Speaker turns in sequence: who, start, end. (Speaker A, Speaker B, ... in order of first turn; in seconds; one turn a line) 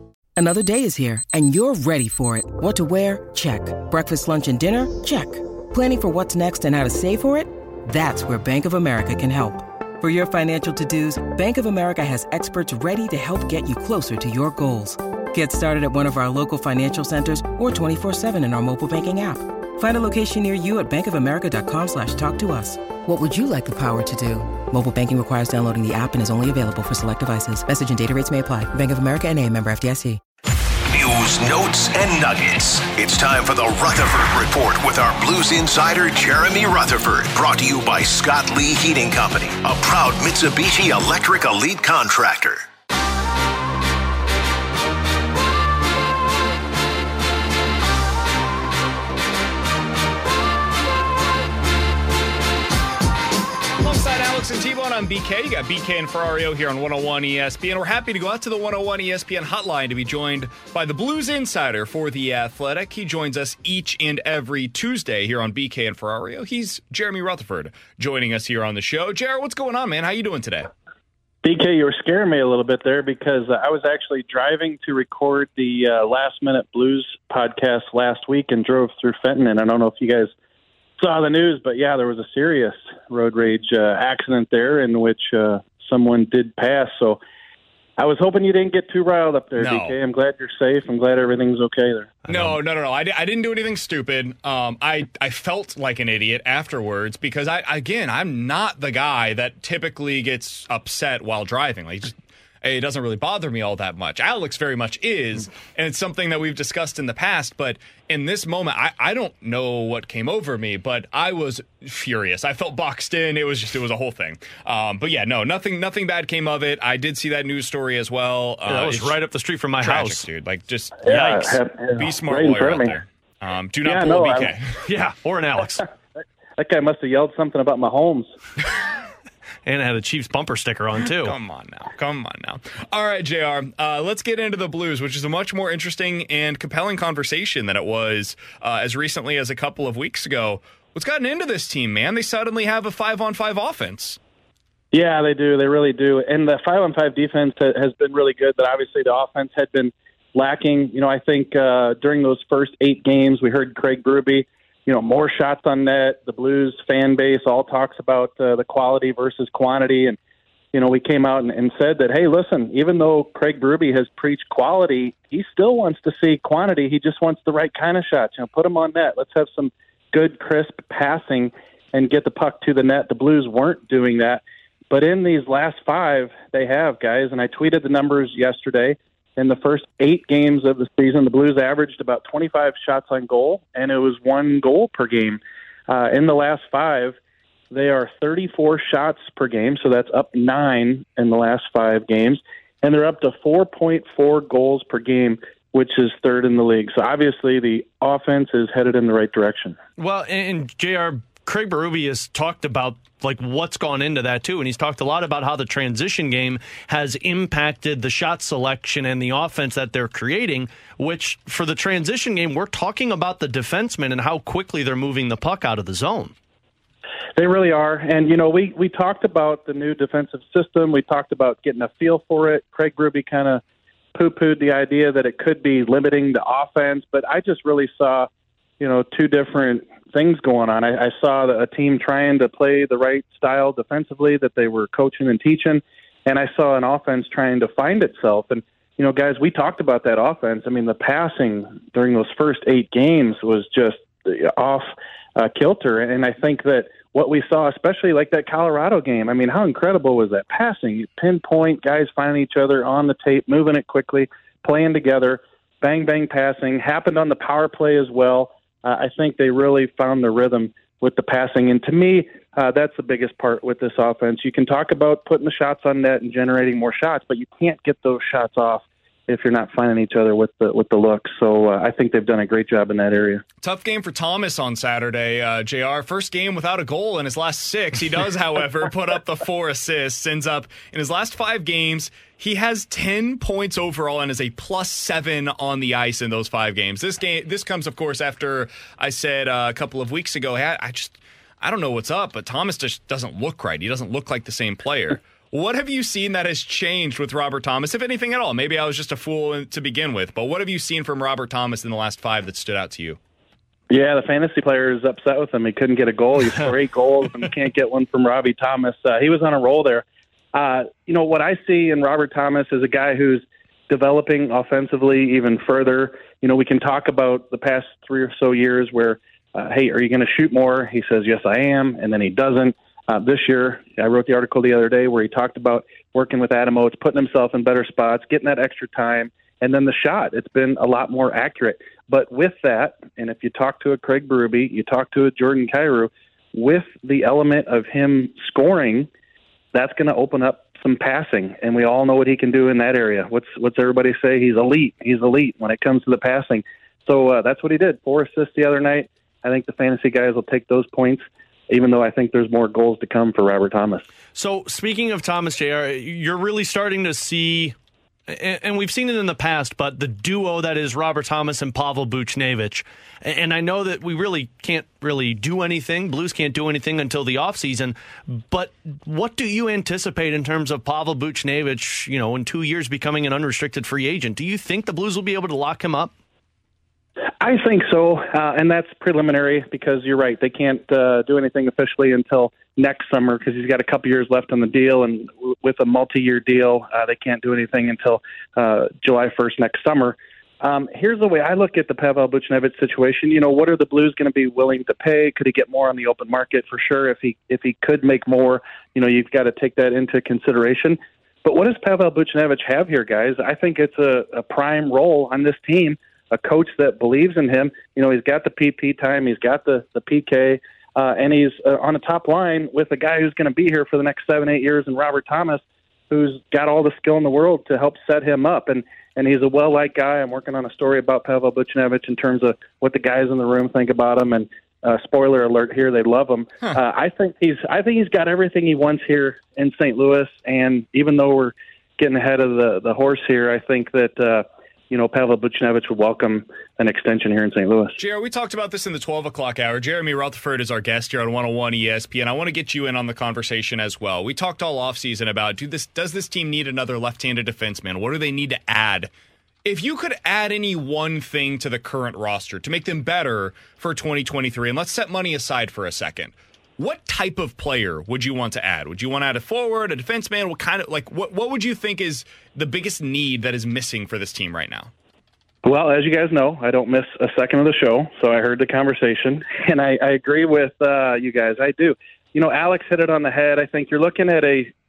Speaker A: 0.4-30.2
Speaker B: 30.9-42.6
Speaker C: 53.8-70.7
Speaker D: 71.4-80.3
Speaker D: 81.0-87.2
Speaker D: 88.0-92.1
Speaker C: 89.6-90.0
Speaker C: 92.3-119.2
Speaker E: 92.3-92.6
Speaker E: 118.7-120.2
Speaker C: 119.8-124.7
Speaker D: 121.0-123.0
Speaker D: 123.8-124.5
Speaker E: 124.8-125.9
Speaker D: 126.6-128.3
Speaker E: 129.7-131.4
Speaker C: 131.2-144.2
Speaker D: 144.9-160.2
Speaker D: 160.7-187.2
Speaker D: 187.7-199.8
Speaker E: 200.0-216.3
Speaker D: 217.4-223.6
Speaker D: 224.1-228.3
Speaker D: 228.8-273.4
Speaker C: 273.6-303.2
Speaker D: 303.9-339.1
Speaker D: 339.7-354.0
Speaker E: 354.4-357.8
Speaker E: 358.3-376.1
Speaker D: 377.4-438.0
Speaker C: 438.0-449.1
Speaker C: 449.6-464.9
Speaker D: 465.6-474.7